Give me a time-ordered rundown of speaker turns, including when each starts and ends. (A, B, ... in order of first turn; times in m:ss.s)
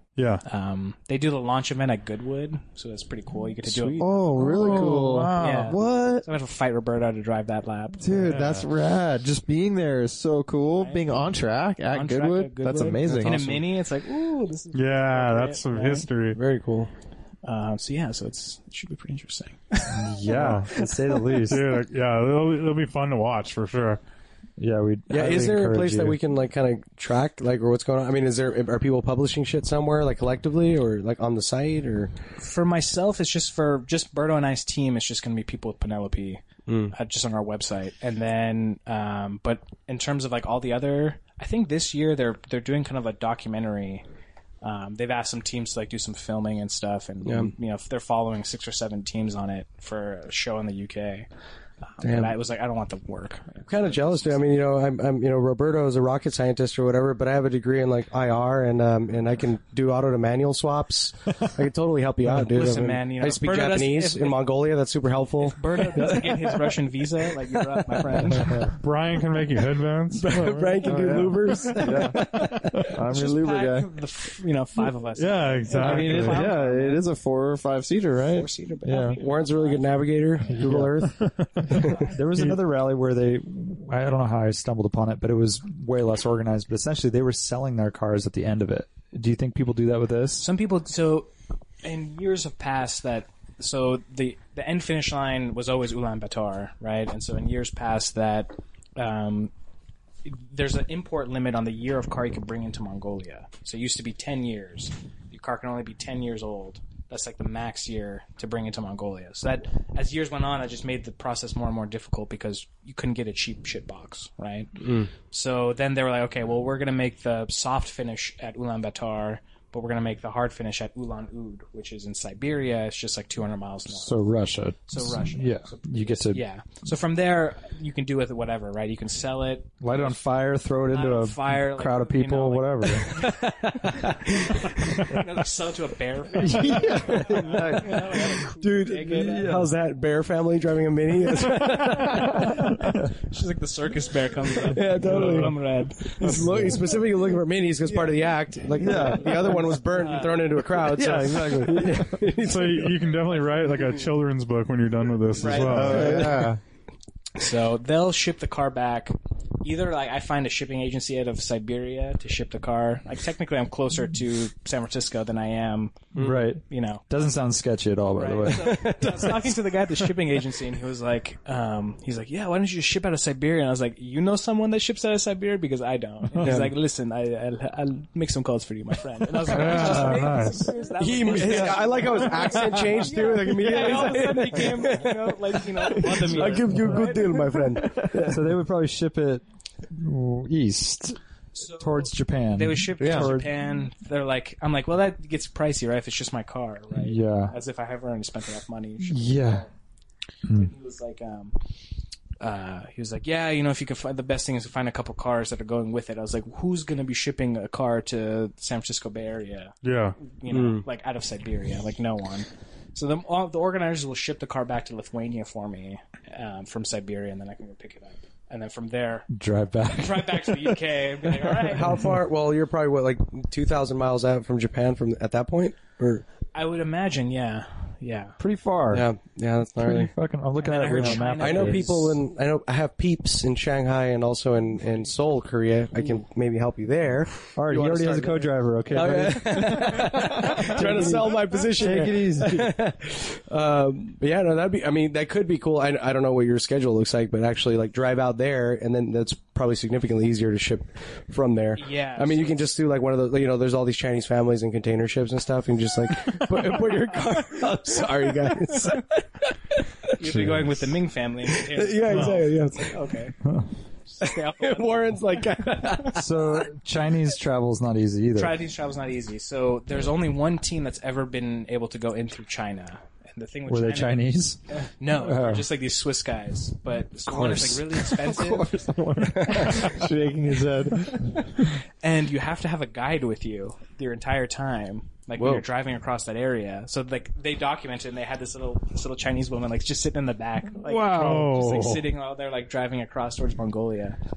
0:00.2-0:00.4 A
0:00.4-0:08.2 B
0:03.9-0:06.3 C
0:04.4-0:05.8 A
0:08.0-0:13.6 C
0:08.1-0:08.7 A
0:10.8-0:11.2 B
0:11.8-0:16.1 B
0:13.0-0:13.5 D
0:14.7-0:16.4 A
0:16.3-0:16.9 D
0:17.4-0:21.4 B
0:19.9-0:21.6 E
0:20.2-0:20.7 A
0:21.3-0:24.0 A
0:24.6-0:26.2 E
0:25.1-0:32.1 D
0:32.4-0:44.0 B
0:36.7-0:36.9 D
0:44.6-0:51.3 B
0:47.2-0:47.5 D
0:51.8-0:54.1 B
0:52.0-0:52.3 D
0:53.6-1:06.8 D
1:02.4-1:04.4 B
1:05.4-1:08.7 B
1:07.3-1:08.4 D
1:08.4-1:12.2 A
1:10.2-1:12.8 D
1:10.8-1:13.9 C
1:12.2-1:17.0 B
1:15.2-1:16.4 A
1:15.7-1:19.2 C
1:18.2-1:19.9 B
1:19.1-1:22.0 D
1:20.5-1:30.5 E
1:21.0-1:22.6 A
1:30.4-1:31.3 B
1:31.8-1:39.5 B
1:40.2-2:04.2 B
1:54.8-1:55.1 D
2:03.9-2:06.4 E
2:04.9-2:10.2 B
2:09.8-2:15.2 E
2:10.9-2:19.7 B
2:16.4-2:18.0 E
2:16.8-2:22.7 D
2:19.2-2:19.7 E
2:21.5-2:27.0 B
2:24.6-2:33.0 D
2:25.0-2:25.3 A
2:27.8-2:28.2 B
2:28.8-2:29.6 E
2:28.8-2:30.5 B
2:30.8-2:32.2 E
2:32.3-2:36.4 A
2:35.3-2:36.5 B
2:35.4-2:36.6 C
2:35.8-2:36.5 D
2:37.3-2:47.2 B
2:46.1-2:46.4 D
2:46.2-2:49.2 E
2:48.1-3:07.8 B
2:48.4-2:49.7 D
2:56.3-2:56.6 E
2:56.4-2:56.7 D
2:59.4-3:00.7 A
2:59.6-3:00.1 D
2:59.6-3:00.6 E
3:01.0-3:08.4 D
3:08.1-3:13.5 E
3:11.6-3:19.7 B
3:13.0-3:13.3 C
3:16.9-3:17.5 E
3:19.0-3:19.7 E
3:20.5-3:21.6 B
3:22.4-3:39.3 B
3:29.8-3:30.2 A
3:30.5-3:30.8 D
3:39.3-3:40.8 E
3:39.9-3:42.1 B
3:41.6-3:46.2 D
3:46.5-3:48.4 B
3:48.4-3:49.1 E
3:48.9-3:50.1 D
3:49.8-3:52.0 E
3:50.6-3:52.1 B
3:51.0-4:19.0 D
3:57.5-4:02.8 E
3:59.7-4:01.1 B
4:11.8-4:12.7 B
4:16.9-4:19.0 B
4:20.1-4:23.4 B
4:20.2-4:20.8 C
4:21.6-4:23.0 D
4:24.1-4:26.2 B
4:24.2-4:26.2 D
4:26.1-4:28.6 E
4:28.3-4:40.0 B
4:33.7-4:34.6 E
4:35.1-4:35.6 E
4:37.3-4:41.5 C
4:42.0-4:54.2 B
4:45.4-4:45.6 D
4:50.8-4:52.0 A